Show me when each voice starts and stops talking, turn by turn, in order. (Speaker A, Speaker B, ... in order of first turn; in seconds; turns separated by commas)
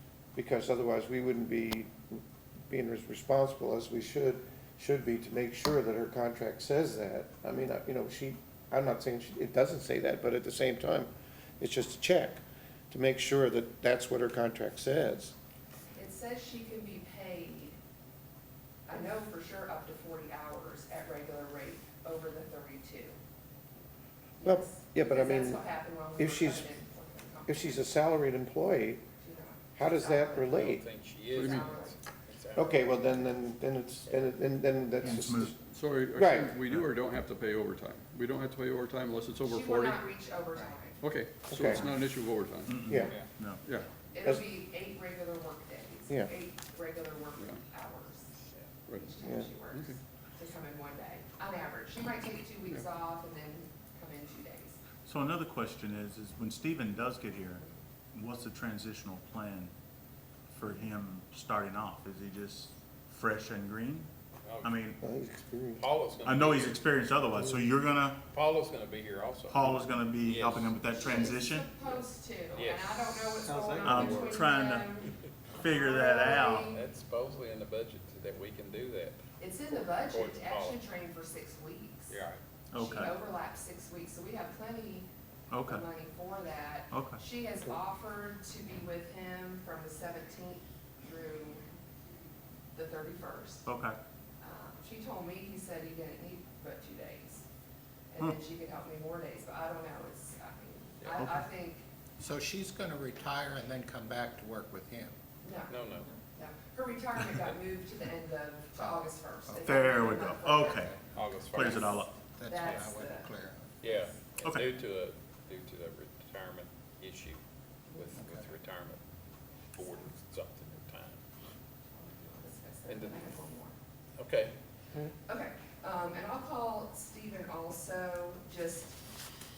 Speaker A: 0.3-15.3, Speaker B: 16.0-17.8, Speaker B: 18.9-23.2, Speaker B: 24.4-27.8, Speaker A: 24.4-25.6, Speaker A: 26.2-26.7, Speaker A: 27.5-29.0, Speaker B: 29.2-30.7, Speaker A: 29.8-30.8, Speaker C: 30.5-33.4, Speaker D: 31.3-31.7, Speaker B: 31.4-31.9, Speaker A: 32.5-35.5, Speaker C: 34.1-34.3, Speaker E: 35.0-35.5, Speaker D: 35.7-40.0, Speaker A: 36.1-36.5, Speaker E: 36.6-36.9, Speaker B: 39.5-41.0, Speaker D: 41.0-42.8, Speaker A: 41.5-41.9, Speaker E: 42.6-43.6, Speaker A: 42.9-43.1, Speaker D: 43.6-43.9, Speaker B: 44.1-48.3, Speaker B: 48.9-54.8, Speaker A: 49.2-49.5, Speaker D: 49.7-50.0, Speaker E: 55.0-59.7, Speaker E: 60.5-64.1, Speaker C: 64.4-64.7, Speaker E: 64.6-65.0, Speaker A: 65.0-65.8, Speaker C: 65.8-66.8, Speaker E: 66.2-68.2, Speaker A: 67.3-67.6, Speaker C: 68.3-70.9, Speaker E: 69.5-71.7, Speaker B: 71.0-76.8, Speaker C: 72.5-73.2, Speaker E: 73.8-76.7, Speaker C: 76.7-80.8, Speaker B: 79.4-82.2, Speaker C: 82.1-82.4, Speaker E: 82.7-83.2, Speaker B: 82.8-85.1, Speaker E: 85.5-85.8, Speaker B: 85.7-91.6, Speaker E: 86.9-87.2, Speaker B: 92.7-93.7, Speaker E: 93.7-94.0, Speaker B: 94.4-97.5, Speaker B: 98.1-101.8, Speaker F: 102.2-105.1, Speaker B: 105.4-105.8, Speaker C: 105.7-106.1, Speaker B: 106.3-111.0, Speaker F: 108.8-109.6, Speaker E: 109.6-112.2, Speaker C: 111.1-111.9, Speaker F: 111.6-113.7, Speaker B: 111.6-113.3, Speaker C: 113.8-117.4, Speaker E: 114.4-114.7, Speaker C: 117.9-119.0, Speaker F: 118.2-118.5, Speaker C: 119.7-121.2, Speaker B: 121.9-123.7, Speaker C: 122.9-123.3, Speaker C: 124.2-124.5, Speaker B: 125.2-129.0